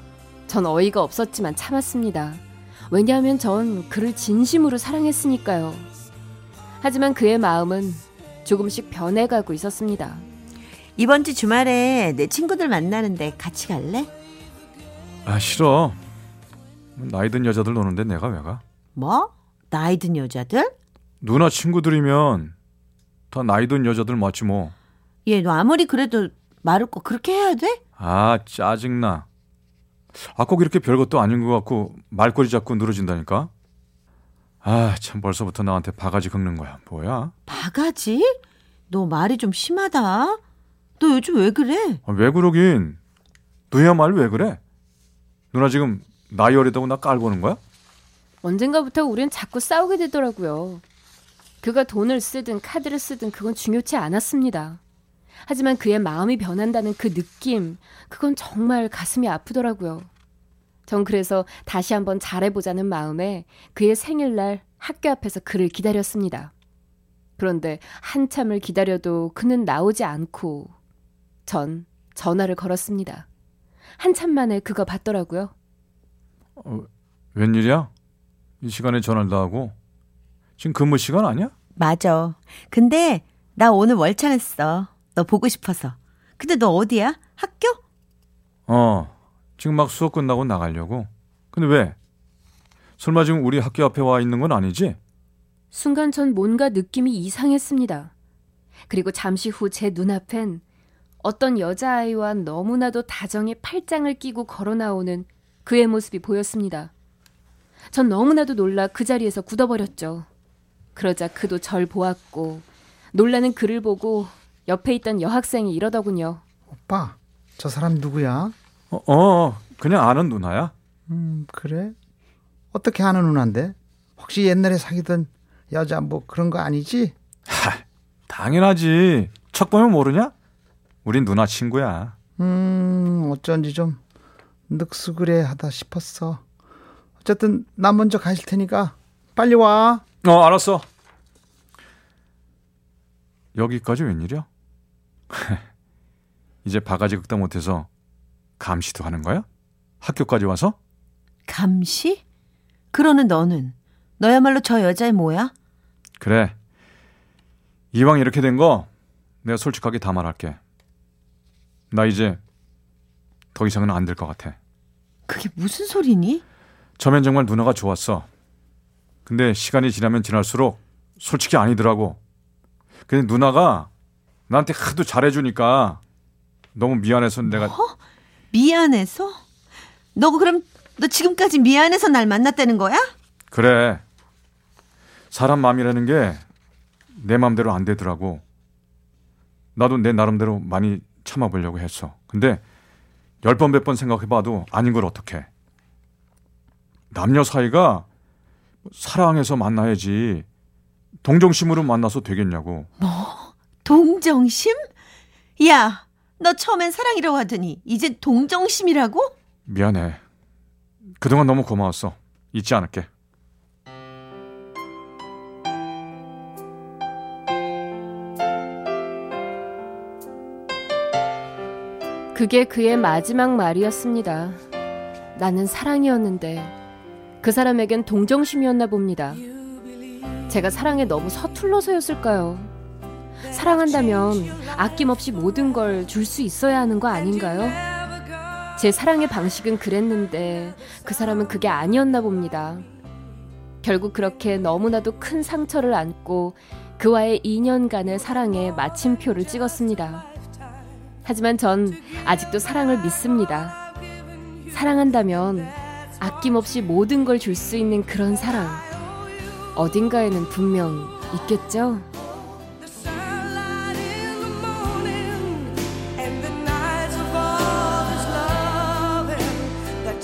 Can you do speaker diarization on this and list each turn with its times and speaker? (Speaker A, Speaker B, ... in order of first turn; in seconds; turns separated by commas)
Speaker A: 0.5-5.9, Speaker A: 6.8-10.3, Speaker B: 11.0-14.1, Speaker C: 15.2-16.0, Speaker C: 17.0-18.6, Speaker B: 19.0-20.7, Speaker C: 21.2-22.5, Speaker C: 23.3-24.7, Speaker B: 25.2-27.8, Speaker C: 28.0-29.2, Speaker C: 30.1-33.5, Speaker C: 34.6-37.3, Speaker B: 37.5-38.4, Speaker B: 38.9-40.4, Speaker B: 41.0-42.0, Speaker C: 42.1-43.0, Speaker C: 43.7-44.6, Speaker C: 45.5-47.6, Speaker A: 48.4-50.8, Speaker A: 51.6-54.8, Speaker A: 55.5-60.1, Speaker A: 60.9-66.5, Speaker A: 67.4-70.7, Speaker A: 71.5-73.2, Speaker A: 74.0-75.5, Speaker C: 76.6-77.9, Speaker C: 78.6-79.8, Speaker C: 80.6-81.5, Speaker B: 81.8-87.8, Speaker C: 88.7-92.0, Speaker C: 93.0-95.0, Speaker A: 95.7-98.1, Speaker A: 98.9-100.6, Speaker A: 101.2-106.9, Speaker A: 107.9-110.3, Speaker A: 111.0-116.4, Speaker D: 117.0-118.5, Speaker C: 118.9-120.7, Speaker D: 121.1-121.9, Speaker D: 122.7-127.1, Speaker C: 127.5-130.3, Speaker C: 131.1-132.2, Speaker D: 132.4-133.9, Speaker D: 134.7-136.4, Speaker D: 137.2-140.0, Speaker C: 140.2-140.8, Speaker C: 143.6-144.5, Speaker C: 145.3-145.6, Speaker C: 146.7-147.9, Speaker C: 148.6-149.4, Speaker C: 150.0-150.8, Speaker B: 151.5-152.2, Speaker B: 152.9-155.5, Speaker C: 156.2-156.6, Speaker C: 157.9-158.9, Speaker C: 159.4-160.6, Speaker C: 161.9-162.4, Speaker C: 163.6-164.6, Speaker B: 165.3-166.4, Speaker C: 167.0-168.3, Speaker C: 169.3-172.2, Speaker C: 173.1-173.9, Speaker C: 174.5-176.0, Speaker C: 176.8-177.7, Speaker B: 177.4-178.0, Speaker B: 178.5-179.4, Speaker B: 180.2-183.1, Speaker C: 183.5-184.0, Speaker C: 185.3-186.4, Speaker C: 187.2-188.4, Speaker C: 189.8-192.6, Speaker C: 193.4-195.5, Speaker C: 197.1-198.1, Speaker C: 198.9-200.4, Speaker C: 201.2-202.9, Speaker B: 203.0-204.9, Speaker B: 205.6-209.3, Speaker C: 209.7-210.2, Speaker C: 211.2-213.1, Speaker A: 222.3-224.6, Speaker A: 225.3-226.8, Speaker A: 227.4-229.4, Speaker A: 230.4-232.7, Speaker A: 233.4-237.9, Speaker A: 238.8-242.9, Speaker A: 243.8-250.3, Speaker A: 251.2-253.8, Speaker A: 254.7-258.9, Speaker A: 259.8-262.1